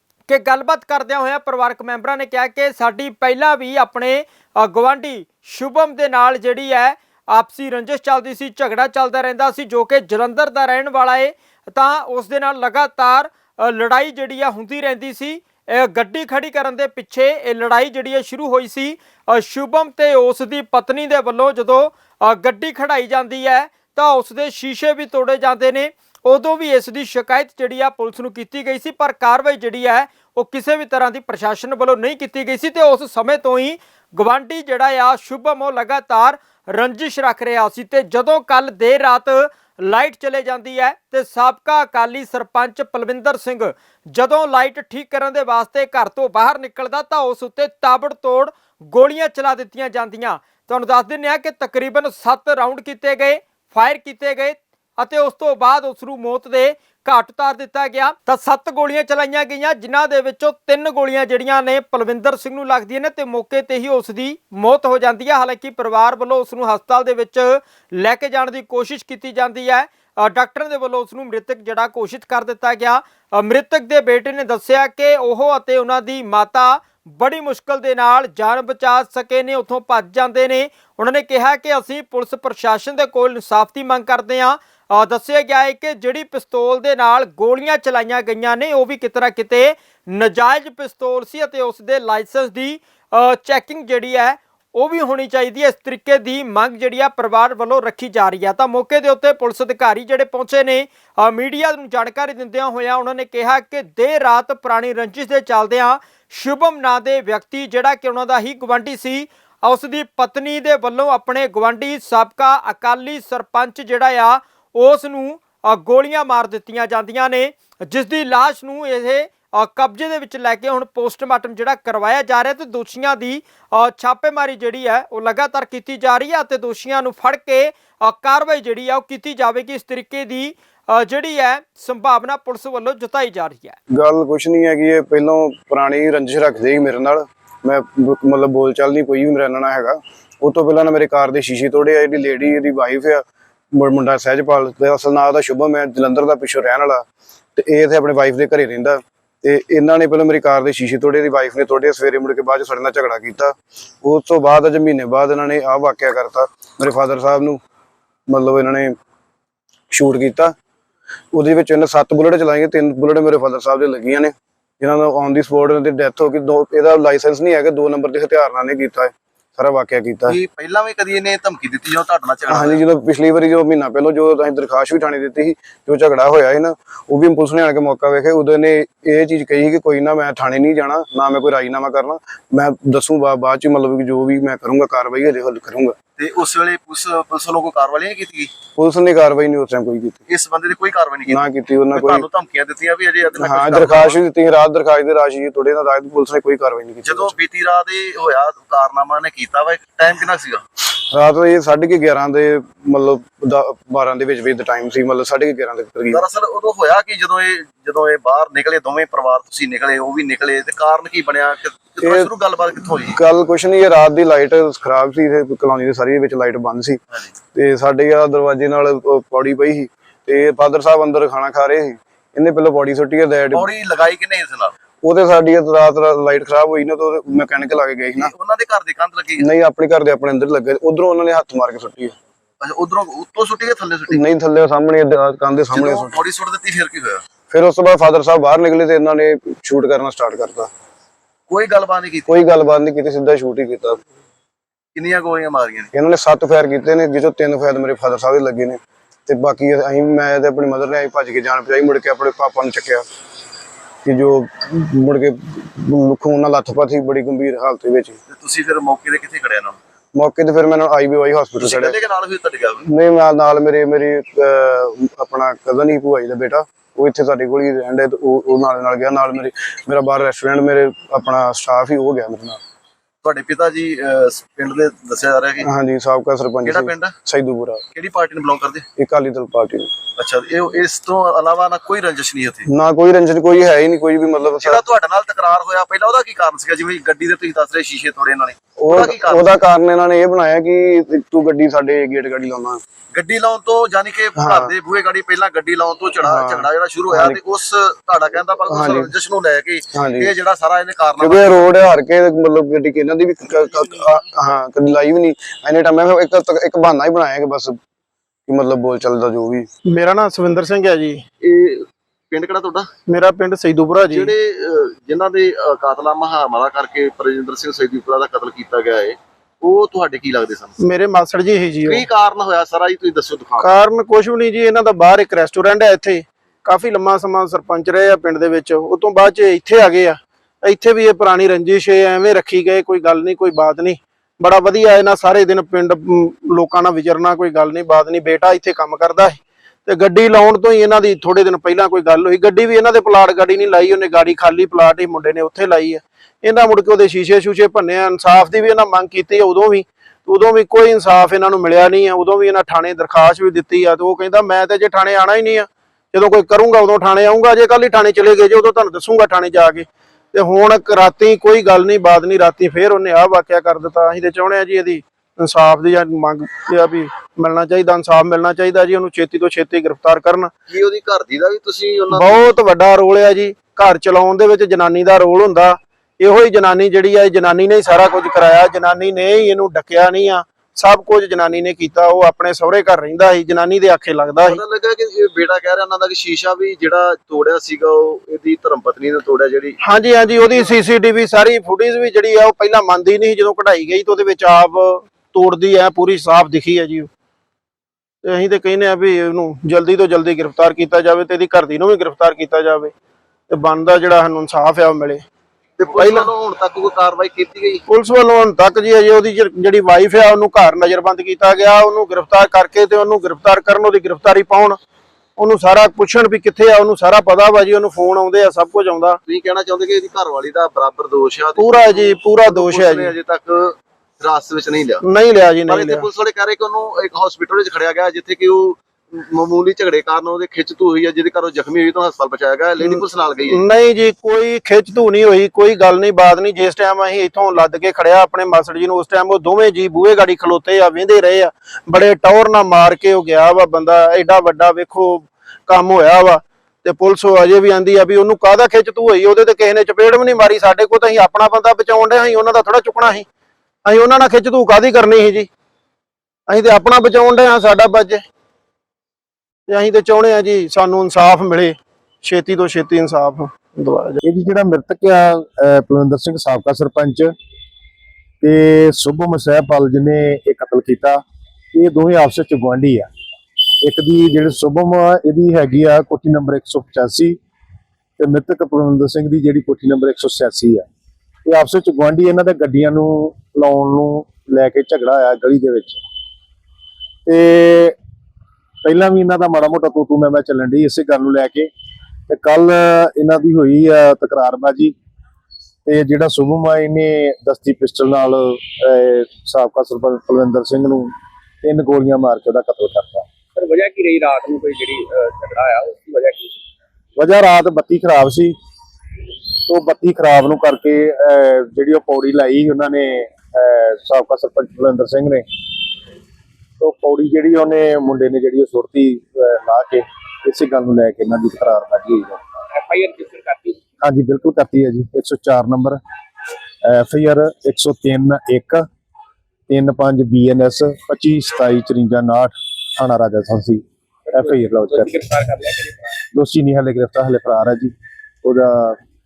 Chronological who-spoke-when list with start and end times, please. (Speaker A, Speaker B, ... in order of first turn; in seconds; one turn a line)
Speaker A: 0.3-133.8
Speaker B: 133.9-147.0
Speaker B: 147.6-157.6
Speaker B: 158.3-158.9
Speaker B: 159.9-160.5
Speaker B: 161.3-170.4
Speaker C: 170.3-172.8
Speaker B: 172.5-185.9
Speaker C: 186.2-188.5
Speaker B: 188.7-190.2
Speaker C: 190.3-194.2
Speaker B: 191.3-192.3
Speaker B: 193.4-197.3
Speaker C: 197.0-200.6
Speaker B: 200.9-206.2
Speaker C: 206.1-213.2
Speaker B: 212.0-212.3
Speaker B: 213.1-217.0
Speaker B: 217.5-223.7
Speaker C: 223.5-224.7
Speaker B: 225.0-228.3
Speaker C: 228.2-229.4
Speaker B: 229.4-232.2
Speaker C: 232.6-234.2
Speaker B: 234.1-236.2
Speaker C: 235.7-237.2
Speaker B: 237.5-240.7
Speaker C: 241.5-242.3
Speaker B: 242.3-244.0
Speaker C: 244.9-245.9
Speaker B: 245.9-253.1
Speaker B: 254.0-258.2
Speaker C: 258.3-259.8
Speaker B: 260.1-261.9
Speaker C: 261.6-262.8
Speaker B: 262.8-272.6
Speaker C: 273.2-275.7
Speaker B: 275.6-277.8
Speaker C: 276.6-277.1
Speaker C: 277.9-278.9
Speaker B: 279.0-279.9
Speaker C: 280.2-282.7
Speaker B: 282.7-284.8
Speaker C: 284.5-289.6
Speaker B: 288.8-292.8
Speaker C: 293.1-301.7
Speaker B: 294.4-294.7
Speaker B: 296.2-297.4
Speaker B: 298.6-299.1
Speaker B: 299.9-300.3
Speaker B: 301.2-307.8
Speaker B: 308.5-309.7
Speaker D: 309.9-311.2
Speaker C: 311.4-312.9
Speaker D: 313.1-314.3
Speaker C: 314.0-320.8
Speaker D: 320.8-321.9
Speaker C: 321.8-323.8
Speaker D: 323.6-339.3
Speaker D: 339.9-346.0
Speaker D: 346.7-359.8
Speaker D: 360.3-370.5
Speaker C: 370.7-372.4
Speaker D: 372.2-384.4
Speaker C: 384.4-389.8
Speaker D: 389.9-397.1
Speaker C: 390.4-390.7
Speaker D: 398.2-402.9
Speaker D: 403.5-405.2
Speaker C: 405.8-407.8
Speaker D: 407.9-414.8
Speaker D: 415.4-419.2
Speaker C: 419.2-425.0
Speaker D: 421.6-422.9
Speaker D: 425.1-426.0
Speaker C: 425.6-433.6
Speaker D: 433.6-453.2
Speaker D: 453.9-455.5
Speaker D: 456.5-458.2
Speaker D: 459.7-461.7
Speaker D: 462.3-464.2
Speaker E: 464.2-467.3
Speaker E: 468.4-471.2
Speaker E: 471.7-473.1
Speaker E: 473.8-477.4
Speaker E: 478.2-480.8
Speaker E: 481.4-486.0
Speaker E: 487.2-487.9
Speaker E: 488.8-491.7
Speaker E: 492.3-494.9
Speaker E: 495.9-503.3
Speaker F: 503.6-506.5
Speaker E: 507.2-508.5
Speaker E: 509.7-515.4
Speaker E: 516.8-522.4
Speaker F: 522.7-523.8
Speaker E: 524.0-526.0
Speaker E: 526.8-528.9
Speaker E: 529.7-535.1
Speaker F: 534.3-536.1
Speaker E: 536.3-539.0